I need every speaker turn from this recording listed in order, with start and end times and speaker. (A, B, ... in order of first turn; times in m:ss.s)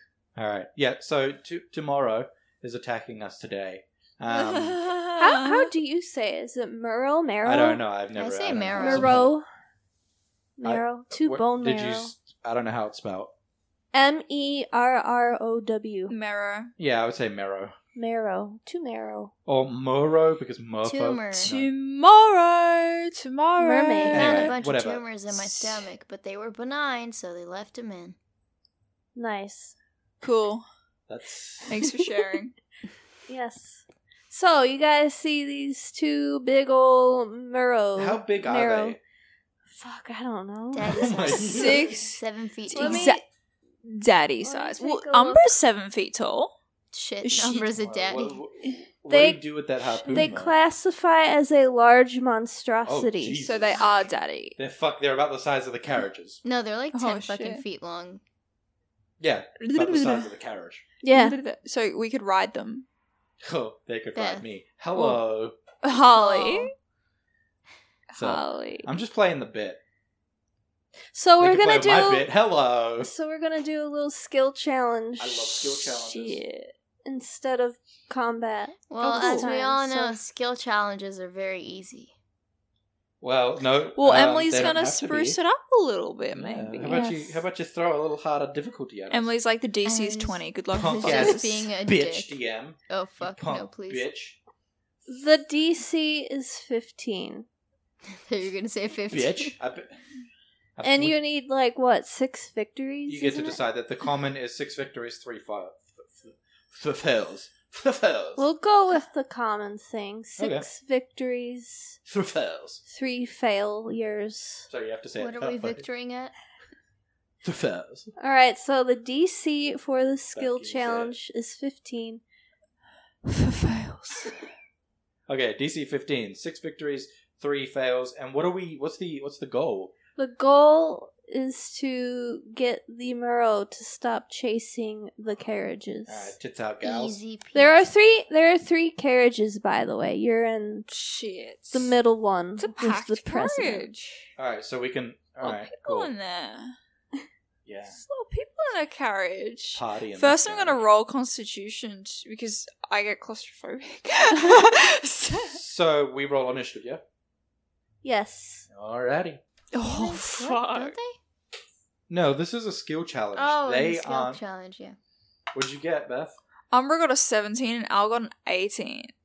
0:00.4-0:04.8 A
0:04.3-0:05.7 B
0:05.2-0:07.8 C
0:07.4-0:09.3 A
0:08.2-0:09.3 D
0:08.8-0:09.5 C
0:10.6-0:12.1 C
0:10.6-0:13.3 A
0:13.9-0:16.2 C
0:16.1-0:16.7 B
0:16.8-0:17.8 A
0:18.0-0:19.3 C
0:19.5-0:21.7 A
0:20.8-0:21.5 D
0:21.3-0:24.6 B
0:23.6-0:24.5 C
0:24.1-0:28.2 D
0:24.1-0:25.0 A
0:25.3-0:25.9 B
0:29.2-0:29.8 C
0:30.2-0:30.6 B
0:31.1-0:31.8 A
0:31.7-0:32.5 B
0:33.3-0:39.0 C
0:38.0-0:39.0 A
0:39.7-0:41.4 C
0:40.7-0:43.1 D
0:40.9-0:42.0 A
0:41.3-0:43.2 B
0:42.7-0:43.2 C
0:43.8-0:46.5 B
0:44.4-0:45.5 C
0:46.9-0:48.4 D
0:47.2-0:47.7 B
0:47.8-0:50.6 A
0:49.1-0:53.5 C
0:52.8-0:54.0 A
0:53.4-0:54.6 B
0:54.6-0:56.4 A
0:56.4-0:58.2 D
0:56.9-0:57.6 B
0:59.2-1:00.8 A
0:59.6-1:00.3 B
1:01.0-1:01.4 C
1:01.1-1:02.9 B
1:03.4-1:05.6 A
1:04.2-1:04.4 D
1:05.0-1:05.2 B
1:05.8-1:06.7 B
1:05.9-1:06.7 D
1:08.2-1:09.8 A
1:08.2-1:08.9 C
1:11.1-1:12.3 C
1:11.4-1:13.1 A
1:13.0-1:16.1 C
1:15.2-1:16.4 A
1:15.8-1:16.7 B
1:17.0-1:20.2 C
1:18.9-1:22.1 D
1:19.1-1:19.5 B
1:23.2-1:25.4 A
1:24.0-1:27.1 B
1:26.3-1:29.3 A
1:26.8-1:27.4 C
1:29.1-1:31.7 B
1:29.9-1:32.3 D
1:30.7-1:34.4 A
1:32.9-1:34.1 D
1:35.1-1:37.5 C
1:38.2-1:39.6 D
1:39.1-1:40.0 A
1:40.8-1:41.2 A
1:40.8-1:43.6 C
1:43.1-1:48.5 A
1:48.4-1:52.0 C
1:50.4-1:50.7 A
1:52.1-1:52.8 A
1:52.9-1:54.7 C
1:54.7-1:55.8 A
1:55.2-1:56.3 D
1:57.4-1:58.1 A
1:58.2-2:02.2 C
2:00.4-2:01.2 A
2:03.3-2:04.4 B
2:05.3-2:09.9 A
2:10.2-2:16.3 C
2:16.1-2:17.2 A
2:16.8-2:17.9 D
2:17.5-2:20.9 C
2:20.9-2:21.9 B
2:21.7-2:23.9 C
2:22.6-2:24.3 B
2:24.4-2:26.1 A
2:25.4-2:26.8 B
2:27.6-2:28.0 A
2:27.9-2:35.6 B
2:29.8-2:30.8 A
2:35.5-2:37.0 A
2:38.0-2:38.7 C
2:38.7-2:39.4 A
2:39.7-2:41.0 B
2:39.8-2:41.2 D
2:42.1-2:44.4 A
2:43.4-2:45.0 D
2:45.5-2:46.4 A
2:46.7-2:49.1 B